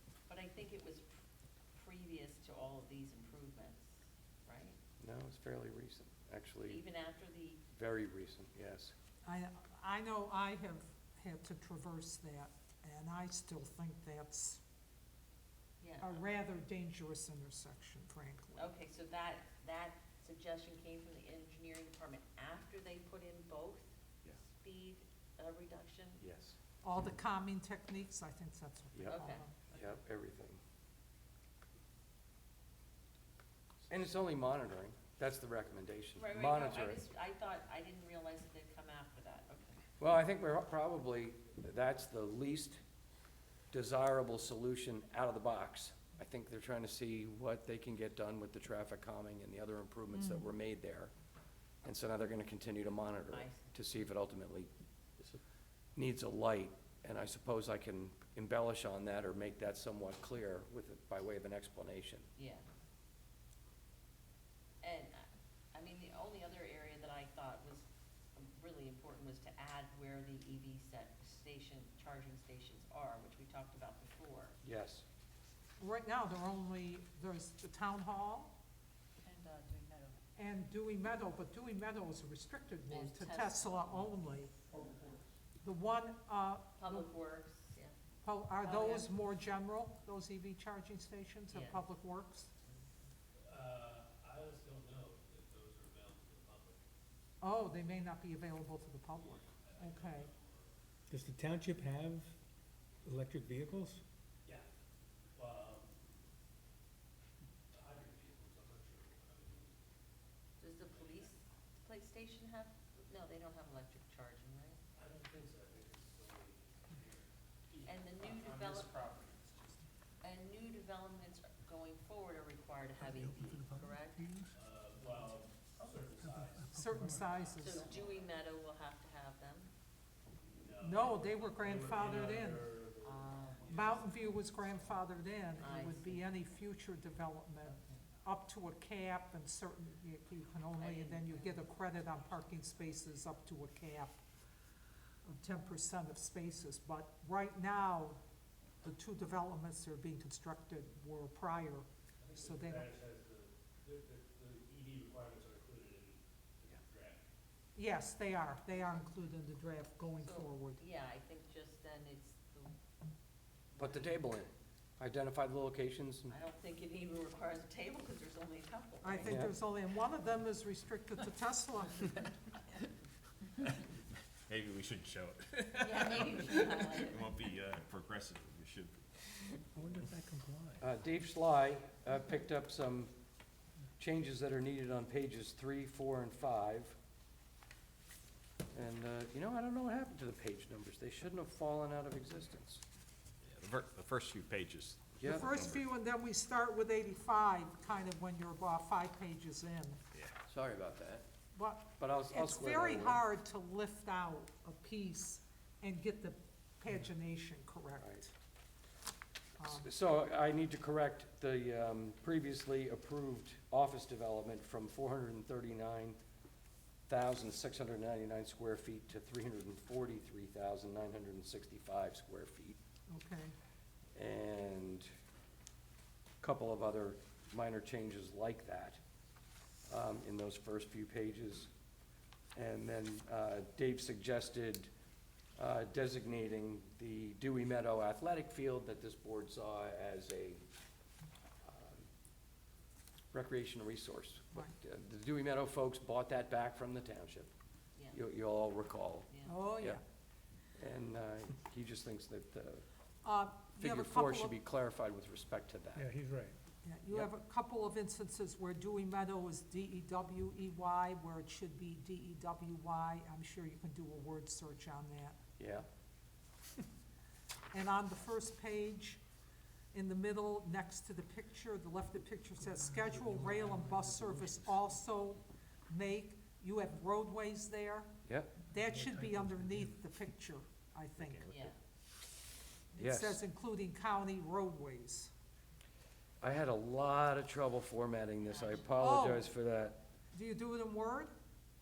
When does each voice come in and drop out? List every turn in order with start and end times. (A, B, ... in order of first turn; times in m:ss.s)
0:00.3-0:01.1 A
0:01.8-0:04.8 A
0:05.0-0:06.8 B
0:06.7-0:07.6 A
0:07.7-0:08.9 B
0:09.2-0:14.6 C
0:15.8-0:16.2 A
0:16.0-0:18.7 C
0:18.6-0:26.2 A
0:26.2-0:26.5 B
0:26.8-0:29.7 C
0:29.1-0:29.4 A
0:29.7-0:30.6 B
0:33.9-0:37.0 B
0:36.2-0:39.8 A
0:40.0-0:42.8 B
0:43.7-0:51.1 B
0:50.1-0:50.4 C
0:51.8-0:54.7 B
0:53.3-0:53.9 A
0:56.0-1:02.3 B
1:02.4-1:02.6 A
1:04.8-1:14.6 A
1:14.6-1:15.0 B
1:15.8-1:18.5 C
1:19.2-1:20.2 A
1:20.4-1:24.6 C
1:22.9-1:24.1 A
1:25.6-1:27.1 C
1:26.8-1:27.9 A
1:28.2-1:32.5 C
1:28.6-1:29.1 A
1:31.5-1:31.9 A
1:33.4-1:36.8 D
1:37.4-1:40.3 C
1:39.2-1:40.7 D
1:41.1-1:42.3 E
1:43.0-1:44.0 E
1:45.4-1:45.9 D
1:47.7-1:49.8 D
1:50.6-1:54.8 A
1:50.9-1:51.3 D
1:55.0-1:59.6 D
1:57.9-1:59.0 A
2:00.2-2:04.3 A
2:03.0-2:04.5 E
2:04.5-2:08.4 D
2:06.4-2:07.1 E
2:06.7-2:07.8 C
2:07.5-2:09.7 A
2:10.5-2:14.5 D
2:10.8-2:12.7 C
2:13.0-2:14.0 A
2:13.7-2:24.2 C
2:15.6-2:16.3 A
2:17.6-2:18.0 A
2:20.8-2:21.6 A
2:25.2-2:28.2 C
2:28.8-2:31.8 C
2:32.2-2:37.2 D
2:32.4-2:32.9 C
2:37.8-2:40.8 C
2:40.2-2:42.8 A
2:43.7-2:44.2 A
2:43.8-2:46.3 B
2:46.3-2:49.5 A
2:49.0-2:52.2 C
2:49.2-2:49.5 B
2:54.5-2:59.0 F
2:55.7-2:57.4 A
2:59.8-3:00.8 E
3:00.8-3:03.1 B
3:04.0-3:07.0 B
3:08.7-3:12.8 B
3:13.4-3:15.8 F
3:15.2-3:15.5 B
3:15.2-3:20.0 C
3:20.5-3:21.2 B
3:21.6-3:28.3 C
3:22.0-3:23.2 B
3:29.6-3:29.9 C
3:29.6-3:36.2 B
3:37.1-3:42.8 B
3:43.1-3:43.5 C
3:44.2-3:45.1 B
3:46.4-3:49.0 B
3:49.9-3:51.7 B
3:52.6-3:54.9 B
3:55.6-4:00.6 B
4:01.6-4:02.1 B
4:03.3-4:07.5 B
4:08.1-4:10.0 B
4:09.3-4:09.6 A
4:09.5-4:10.0 C
4:10.8-4:12.8 B
4:13.2-4:14.6 C
4:13.8-4:16.1 B
4:16.0-4:16.6 E
4:16.8-4:25.4 C
4:25.6-4:25.9 B
4:27.7-4:29.2 C
4:29.9-4:38.1 C
4:38.3-4:38.5 B
4:38.7-4:41.5 C
4:41.2-4:41.6 F
4:41.5-4:41.8 A
4:42.9-4:45.3 C
4:43.0-4:43.4 B
4:46.4-4:50.0 B
4:48.4-4:48.9 A
4:49.0-4:49.5 C
4:50.3-4:51.3 C